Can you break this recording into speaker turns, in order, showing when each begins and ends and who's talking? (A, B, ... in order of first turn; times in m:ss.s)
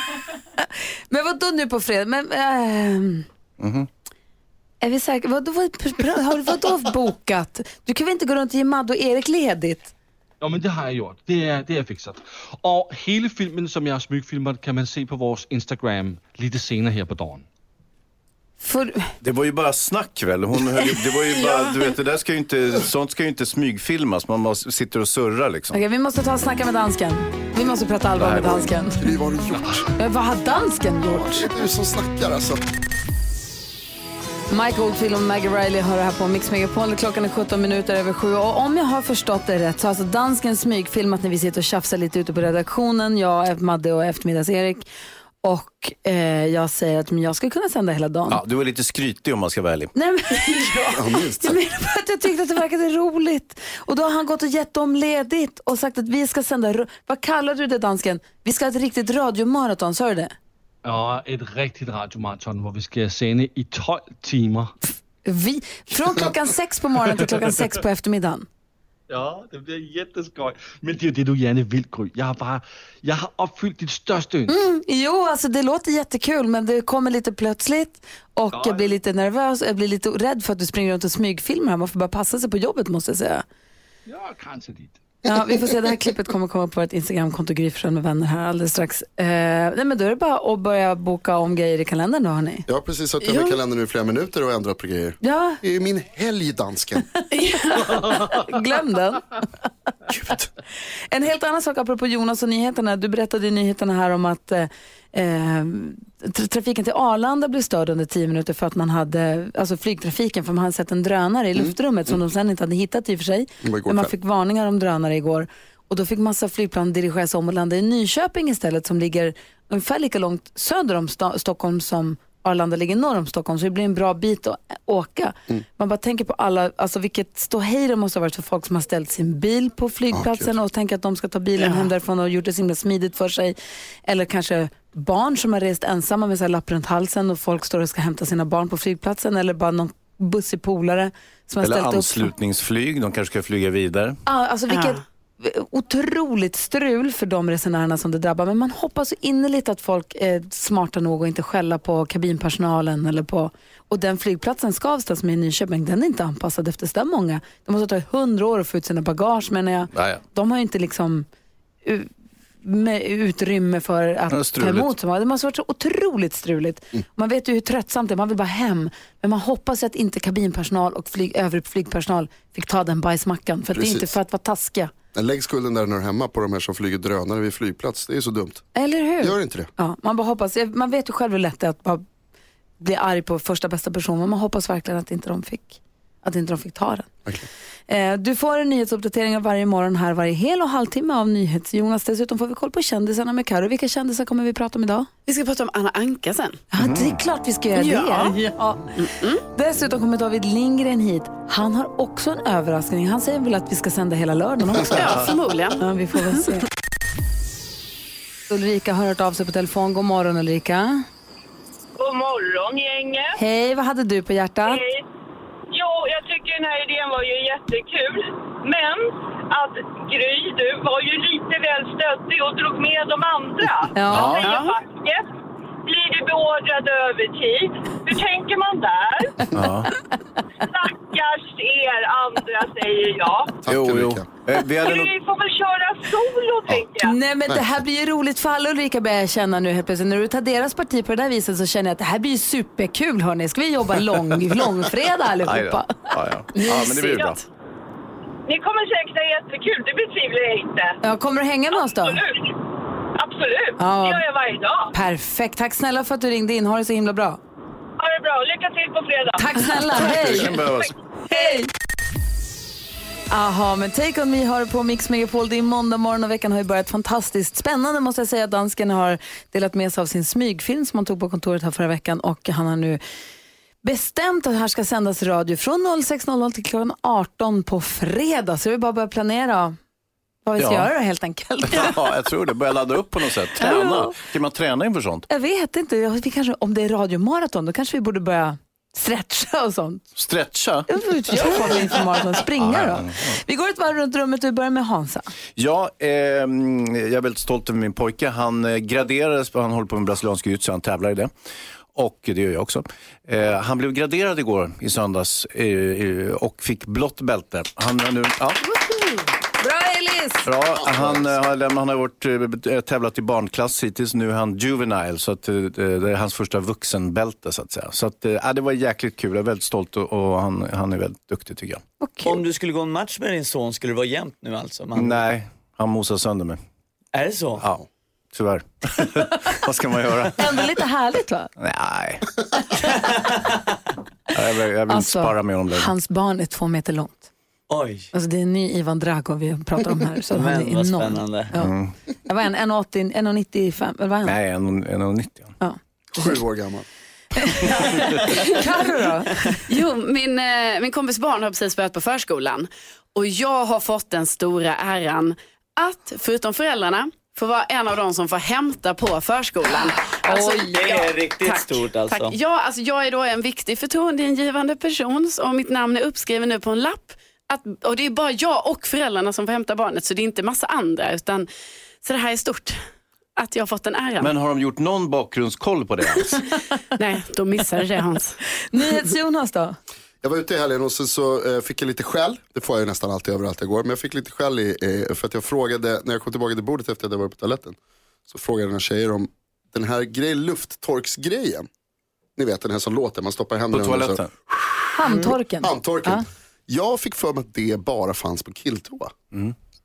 0:00.6-0:03.2 A
0:03.6-0:03.9 B
0:04.8-0:09.9 A
0:10.4-0:17.4 C
0:18.6-0:19.1 A
0:19.2-0:25.8 B
0:21.5-0:21.7 D
0:25.7-0:29.1 A
0:28.2-0:28.7 B
0:29.0-0:29.9 E
0:29.5-0:29.8 C
0:30.0-0:31.5 A
0:31.1-0:32.6 E
0:34.5-0:44.9 A
0:45.4-0:48.4 A
0:48.3-0:49.9 B
0:49.9-1:00.3 A
0:50.9-0:51.6 E
1:00.8-1:04.7 C
1:05.2-1:08.5 A
1:07.2-1:07.6 C
1:09.1-1:14.5 C
1:14.5-1:23.4 A
1:18.5-1:19.0 C
1:24.0-1:25.0 C
1:25.2-1:32.7 A
1:32.7-1:37.1 E
1:33.2-1:33.6 D
1:35.2-1:35.6 A
1:37.3-1:38.0 D
1:37.3-1:39.4 A
1:38.0-1:38.5 C
1:41.1-2:22.3 A
1:53.6-1:54.1 E
2:10.1-2:10.5 E
2:11.6-2:11.9 D
2:21.6-2:24.2 B
2:24.2-2:41.3 A
2:24.7-2:25.0 D
2:39.9-2:40.2 B
2:41.8-2:42.1 A
2:42.6-2:54.9 A
2:44.3-2:44.9 B
2:53.7-2:54.1 E
2:55.1-2:58.6 E
2:58.7-3:02.0 A
2:59.2-2:59.7 E
3:02.8-3:07.1 A
3:07.9-3:15.1 A
3:15.2-3:16.6 D
3:16.7-3:26.7 A
3:16.8-3:17.2 B
3:17.8-3:18.4 D
3:19.0-3:19.4 D
3:24.8-3:26.4 D
3:28.5-3:31.1 A
3:32.0-3:33.4 F
3:33.4-3:34.8 A
3:34.6-3:35.0 F
3:35.7-3:45.2 F
3:43.9-3:44.4 A
3:44.0-3:44.6 B
3:44.4-3:44.7 D
3:45.8-3:49.5 F
3:49.5-3:49.9 B
3:50.6-3:53.5 F
3:53.6-3:54.3 E
3:53.6-3:55.1 B
3:54.8-3:57.2 F
3:57.0-4:06.7 A
4:05.4-4:07.4 B
4:06.6-4:07.3 D
4:08.4-4:11.0 F
4:11.0-4:12.2 A
4:11.8-4:12.6 F
4:13.2-4:14.9 F
4:13.8-4:14.2 A
4:14.9-4:17.4 A
4:18.0-4:19.7 F
4:19.4-4:20.6 A
4:19.8-4:20.9 B
4:21.3-4:21.7 A
4:23.3-4:33.0 A
4:33.8-4:39.8 A
4:40.4-4:42.0 A
4:40.6-4:40.9 B
4:41.6-4:45.2 B
4:43.6-4:44.2 A
4:45.3-4:50.0 A
4:50.1-4:51.7 B
4:50.9-4:55.3 A
4:52.6-4:53.4 B
4:55.6-5:01.3 B
5:01.9-5:08.6 B
5:08.9-5:10.5 A
5:10.4-5:21.8 B
5:22.0-5:22.4 A
5:22.2-5:25.2 G
5:24.9-5:26.6 B
5:27.1-5:27.7 G
5:28.3-5:30.6 B
5:30.4-5:31.5 A
5:31.6-5:32.2 B
5:34.3-5:35.9 B
5:34.9-5:37.3 A
5:37.7-5:38.1 G
5:38.1-5:41.7 A
5:40.3-5:41.5 G
5:41.6-5:41.9 B
5:42.2-5:44.3 A
5:44.2-5:45.5 B
5:45.6-5:46.4 A
5:46.1-5:46.8 E
5:47.3-5:49.6 A
5:49.7-6:11.5 D
6:00.0-6:00.8 A
6:00.7-6:02.4 G
6:12.0-6:12.8 D
6:13.4-6:14.3 D
6:14.2-6:16.4 B
6:17.0-6:18.4 D
6:18.7-6:19.8 A
6:20.2-6:27.8 E
6:28.3-6:31.7 E
6:32.4-6:34.2 E
6:33.7-6:34.3 B
6:35.0-6:36.2 A
6:35.1-6:39.2 E